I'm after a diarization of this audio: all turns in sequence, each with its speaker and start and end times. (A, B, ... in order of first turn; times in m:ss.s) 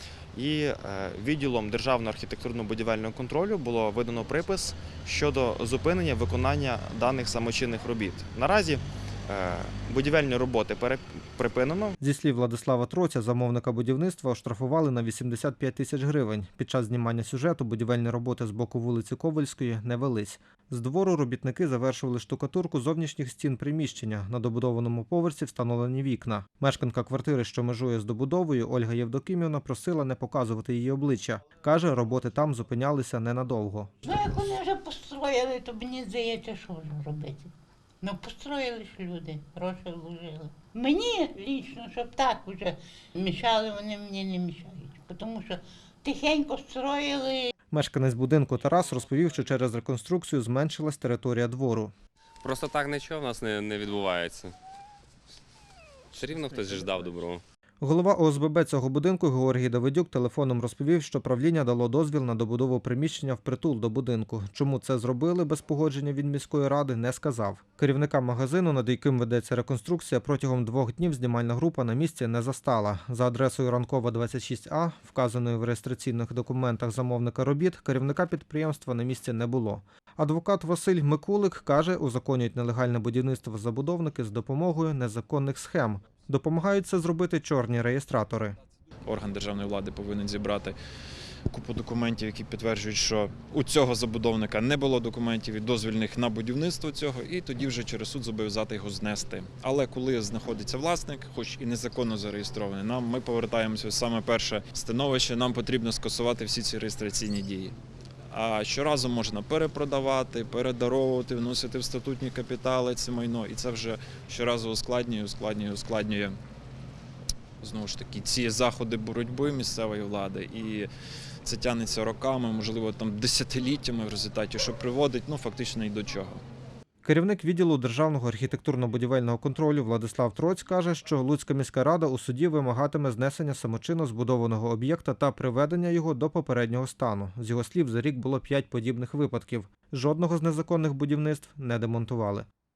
0:00.3-0:12.0 A
0:12.0-0:33.9 B
0:34.0-0:47.5 C
0:47.7-0:51.9 B
0:52.4-0:54.5 D
0:56.1-0:57.4 D
0:57.8-1:28.6 B
1:29.0-1:30.8 E
1:31.5-1:47.7 E
1:48.3-1:56.4 E
1:57.6-2:00.9 E
2:01.4-2:06.4 E
2:07.0-2:22.5 B